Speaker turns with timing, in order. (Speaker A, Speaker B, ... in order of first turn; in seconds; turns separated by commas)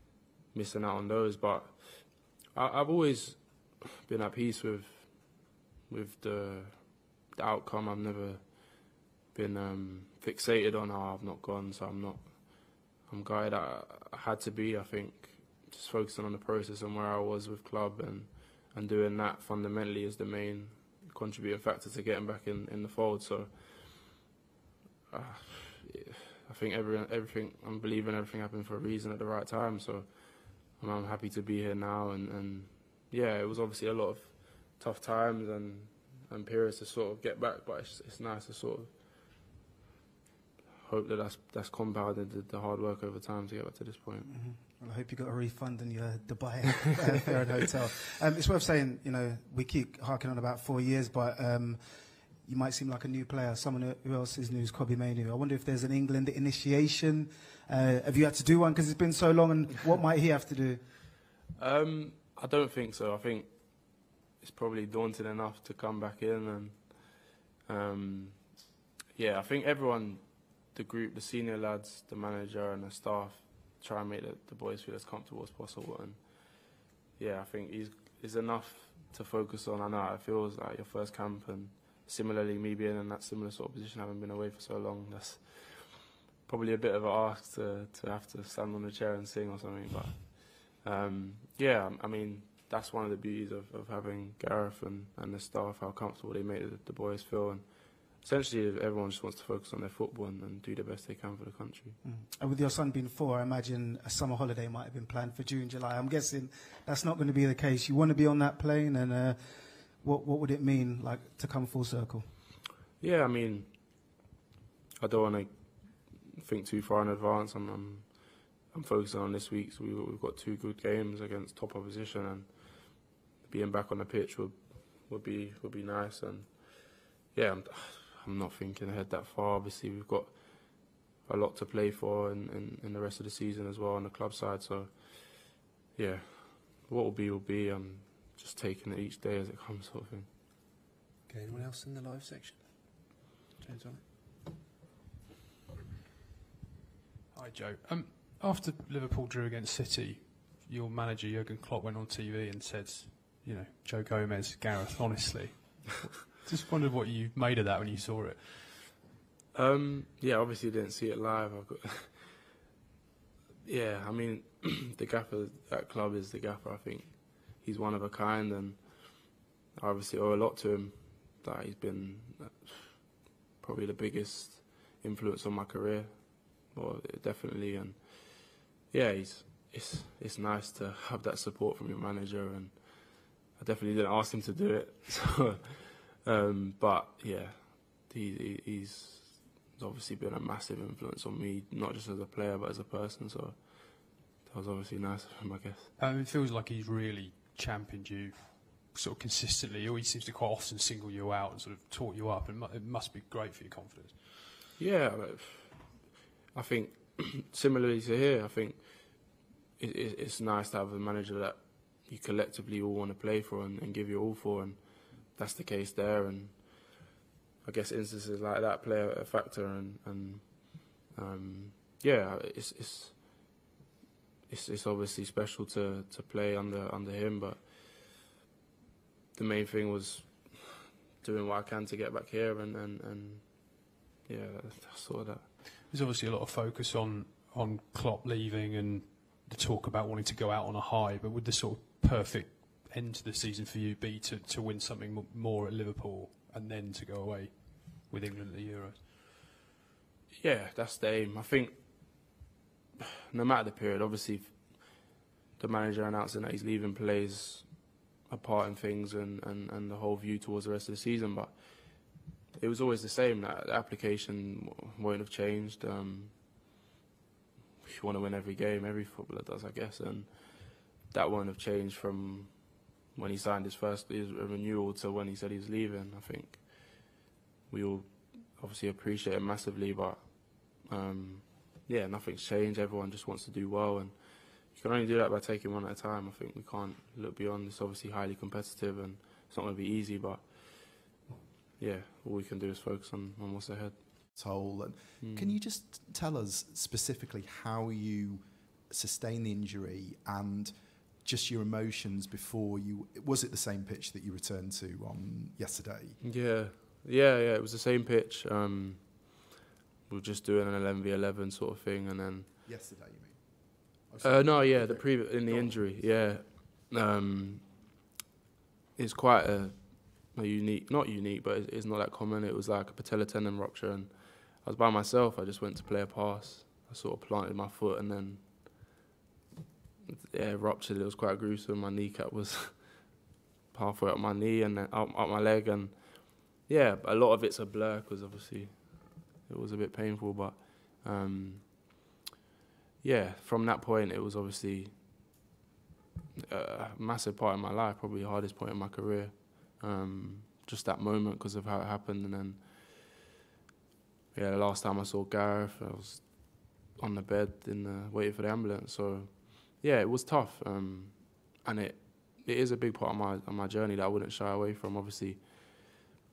Speaker A: 0.5-24.2, Speaker A: 25.1-38.9, Speaker A: 40.8-44.3, Speaker B: 44.3-51.8, Speaker B: 52.4-60.9, Speaker A: 61.5-68.6, Speaker A: 69.1-76.5, Speaker A: 77.2-102.0, Speaker B: 102.0-112.3, Speaker A: 113.0-114.0, Speaker A: 115.0-140.3, Speaker C: 141.3-144.0, Speaker D: 147.3-158.9, Speaker A: 159.5-162.5, Speaker A: 163.6-195.9, Speaker D: 196.0-204.4, Speaker A: 204.8-217.0, Speaker A: 217.6-223.5, Speaker A: 224.5-227.7, Speaker A: 229.3-235.4, Speaker D: 235.9-249.1, Speaker A: 250.4-252.3, Speaker A: 253.3-266.6, Speaker A: 267.8-277.1, Speaker A: 277.7-291.2, Speaker A: 291.8-294.4, Speaker E: 294.3-306.2, Speaker A: 295.2-295.5, Speaker A: 306.2-309.5, Speaker A: 310.1-312.5, Speaker E: 312.6-316.3, Speaker A: 314.2-317.9, Speaker A: 318.9-328.9, Speaker A: 330.1-342.0, Speaker A: 343.0-345.4, Speaker A: 346.5-353.0, Speaker A: 354.3-366.0